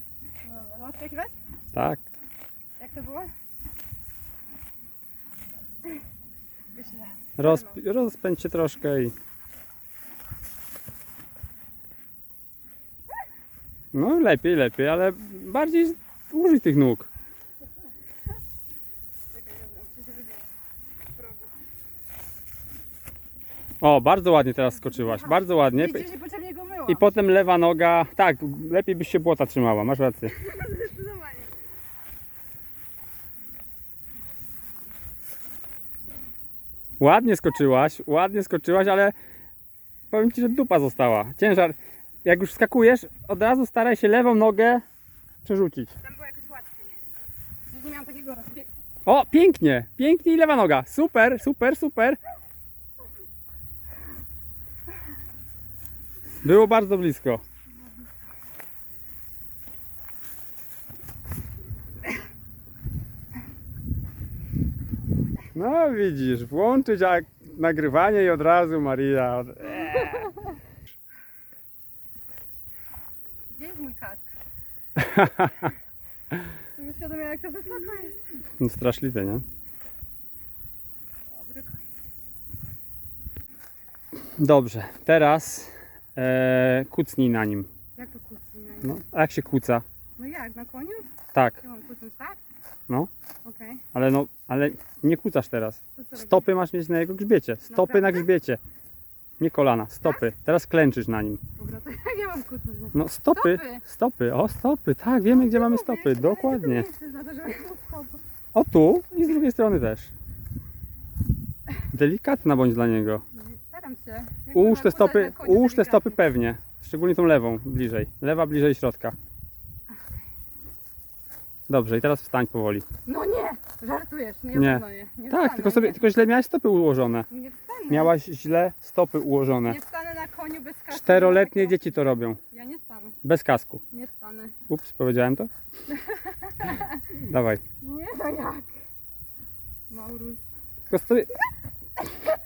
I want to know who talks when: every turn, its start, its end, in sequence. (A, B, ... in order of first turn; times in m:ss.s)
0:00.4-0:01.3 A
0:01.7-0:02.0 B
0:02.8-0:03.3 A
0:06.8-0:07.8 A
0:07.4-0:09.1 B
0:13.9-0:17.1 B
0:19.3-0:20.4 A
0:23.8-0:26.1 B
0:24.9-0:27.1 A
0:26.9-0:30.4 B
0:30.4-0:31.5 A
0:37.0-0:39.2 B
0:40.1-0:44.8 B
0:45.4-0:45.9 B
0:46.0-0:46.9 A
0:47.7-0:48.7 A
0:49.1-0:52.2 B
0:56.4-0:57.4 B
1:05.6-1:10.3 B
1:09.8-1:10.5 A
1:13.5-1:14.4 A
1:15.0-1:15.7 B
1:16.7-1:18.3 A
1:18.6-1:19.4 B
1:21.4-1:21.8 A
1:24.4-1:27.7 B
1:28.0-1:29.0 A
1:28.8-1:29.8 B
1:30.2-1:31.1 A
1:31.3-1:31.6 B
1:31.6-1:32.4 A
1:33.4-1:33.8 A
1:33.9-1:38.6 B
1:36.0-1:36.5 A
1:37.7-1:38.3 A
1:39.4-1:41.4 B
1:41.6-1:43.8 A
1:42.9-1:46.9 B
1:45.3-1:48.2 A
1:48.5-1:50.1 B
1:51.9-1:53.2 B
1:53.3-1:56.2 A
1:54.5-1:59.2 B
1:59.9-2:00.2 A
2:01.7-2:02.8 B
2:03.0-2:06.0 A
2:04.5-2:07.3 B
2:07.3-2:08.1 A
2:07.9-2:09.8 B
2:09.6-2:13.2 A
2:10.9-2:12.4 B
2:13.2-2:13.8 B
2:13.9-2:14.6 A
2:14.7-2:15.5 B
2:15.9-2:17.1 A
2:17.1-2:17.6 B
2:17.8-2:18.7 A
2:19.9-2:20.5 A
2:20.9-2:21.3 B